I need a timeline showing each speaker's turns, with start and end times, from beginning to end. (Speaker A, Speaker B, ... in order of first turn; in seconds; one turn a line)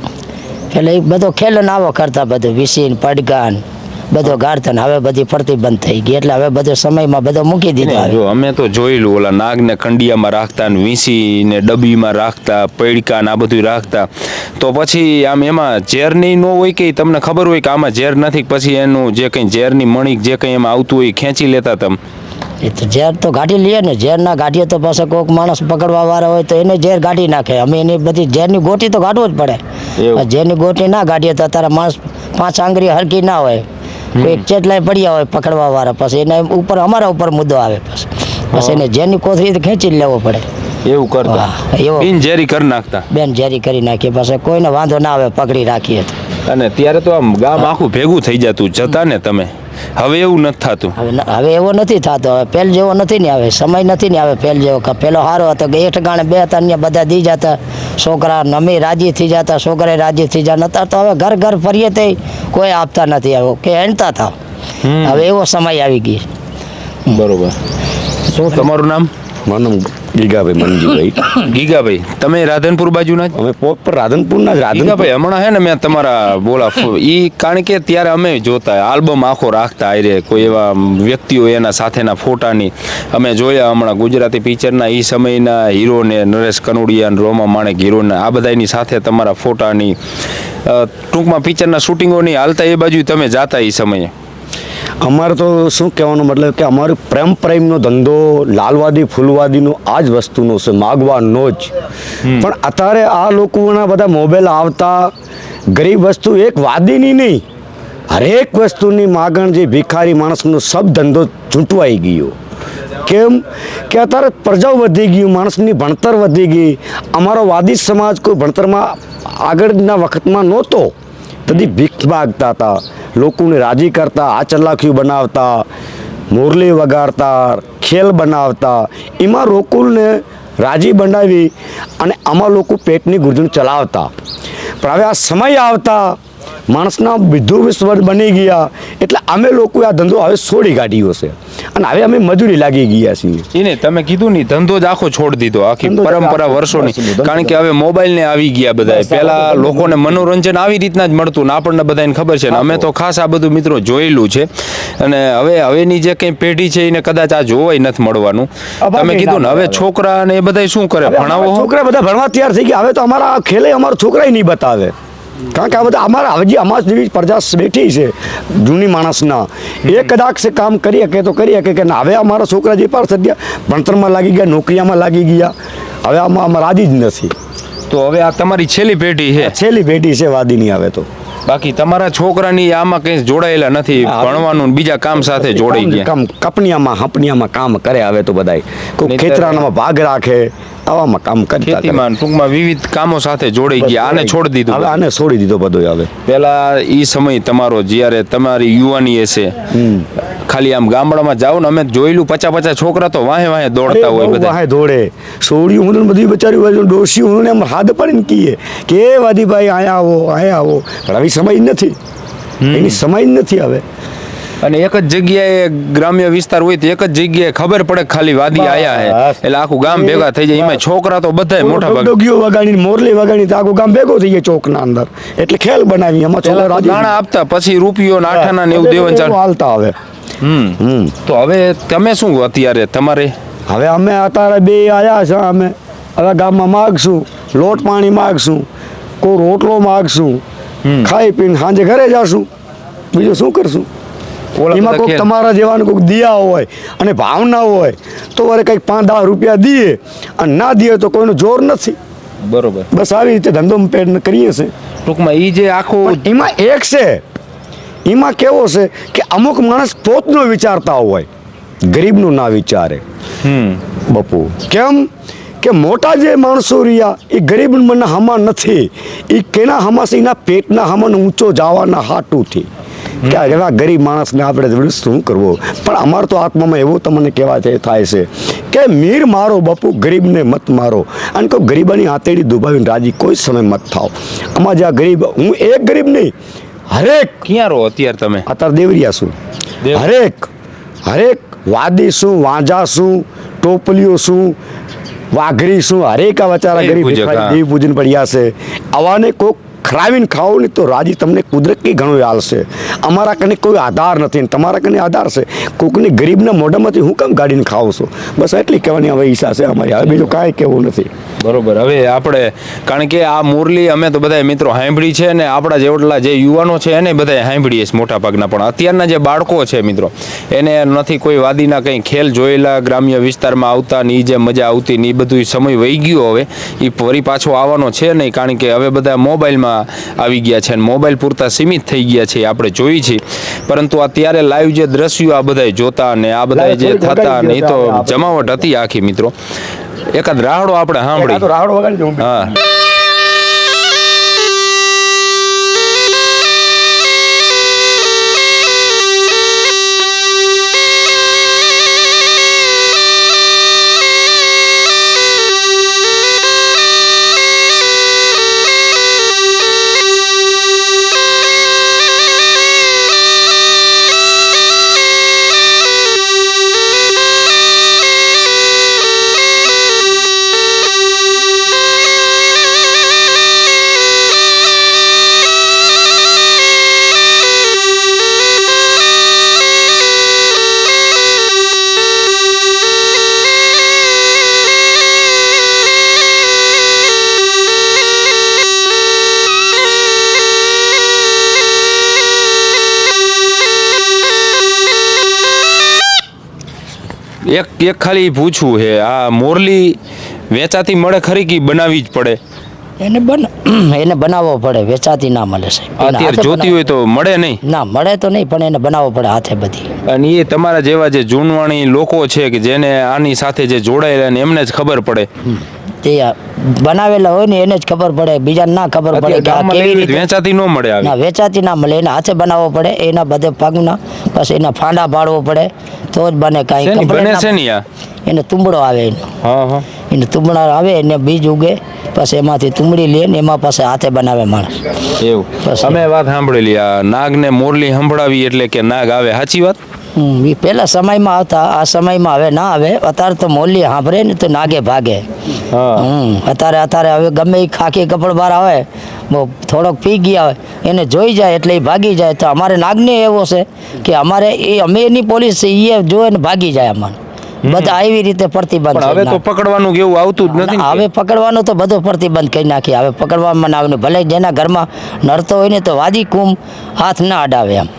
Speaker A: 0.7-8.2
Speaker B: 7.8-22.0
Speaker A: 22.6-29.6
Speaker B: 30.0-30.2
Speaker A: 30.1-33.6
Speaker B: 34.1-34.4
Speaker A: 34.2-40.5
Speaker B: 38.5-38.8
Speaker B: 40.8-43.1
Speaker A: 41.2-42.1
Speaker A: 43.1-46.2
Speaker B: 46.5-50.9
Speaker A: 51.0-64.3
Speaker B: 64.8-65.3
Speaker A: 65.0-66.3
Speaker B: 67.1-67.5
Speaker B: 68.3-69.1
Speaker C: 69.5-71.3
Speaker B: 71.3-73.3
Speaker C: 73.3-75.1
Speaker B: 74.7-90.0
Speaker B: 90.7-94.1
Speaker C: 95.0-101.7
Speaker B: 102.2-102.5
Speaker C: 102.4-105.1
Speaker C: 105.7-107.4
Speaker C: 108.1-112.3
Speaker C: 113.0-120.9
Speaker C: 121.5-125.6
Speaker C: 126.3-134.1
Speaker C: 134.8-136.2
Speaker C: 136.7-143.5
Speaker B: 143.5-161.7
Speaker C: 145.8-147.6
Speaker C: 148.8-150.2
Speaker C: 152.5-152.9
Speaker C: 158.8-159.8
Speaker C: 161.0-164.9
Speaker C: 165.5-177.3
Speaker B: 177.9-179.5
Speaker C: 179.4-181.1
Speaker B: 181.5-186.1
Speaker C: 184.0-184.5
Speaker C: 185.2-192.0
Speaker B: 189.0-189.7
Speaker B: 191.6-195.0
Speaker C: 193.8-196.1
Speaker B: 196.2-199.6
Speaker C: 199.7-200.1
Speaker B: 200.5-204.6
Speaker C: 203.9-211.9
Speaker B: 212.6-213.0
Speaker C: 212.7-213.8
Speaker B: 214.6-222.1
Speaker C: 218.5-220.8
Speaker C: 221.6-227.1
Speaker B: 226.4-229.4
Speaker C: 228.3-229.9
Speaker B: 230.4-233.3
Speaker C: 230.8-231.2
Speaker C: 233.7-238.6
Speaker C: 239.2-240.4
Speaker B: 240.8-241.1
Speaker C: 241.0-242.5
Speaker C: 243.1-243.9
Speaker B: 244.6-245.3
Speaker C: 244.7-252.0
Speaker B: 252.4-252.9
Speaker C: 252.9-254.7
Speaker B: 255.0-256.2
Speaker C: 256.0-257.2
Speaker C: 258.1-261.3
Speaker C: 261.9-263.0
Speaker B: 263.4-263.8
Speaker C: 264.1-265.1
Speaker C: 265.6-272.7
Speaker C: 273.2-286.3
Speaker B: 273.2-273.6
Speaker C: 286.9-287.4
Speaker B: 287.4-288.4
Speaker C: 288.5-289.3
Speaker B: 289.8-290.1
Speaker C: 289.9-290.5
Speaker C: 291.1-294.6
Speaker C: 295.3-311.1
Speaker B: 296.7-297.6
Speaker B: 310.1-310.3
Speaker B: 311.4-339.3
Speaker C: 336.5-338.6
Speaker B: 340.1-341.5
Speaker C: 341.1-342.5
Speaker B: 342.2-342.6
Speaker B: 397.5-400.0
Speaker B: 400.5-402.4
Speaker A: 403.0-406.8
Speaker B: 406.0-407.6
Speaker A: 407.6-409.9
Speaker B: 410.1-415.3
Speaker A: 416.0-420.2
Speaker B: 419.1-421.1
Speaker A: 421.0-427.5
Speaker B: 426.8-427.8
Speaker A: 428.2-429.3
Speaker B: 429.4-429.9
Speaker A: 430.1-434.8
Speaker B: 435.1-439.8
Speaker A: 435.6-436.0
Speaker A: 440.1-445.2
Speaker B: 445.7-446.1
Speaker A: 446.0-459.4
Speaker B: 457.6-457.9
Speaker B: 458.9-461.1
Speaker A: 460.5-467.9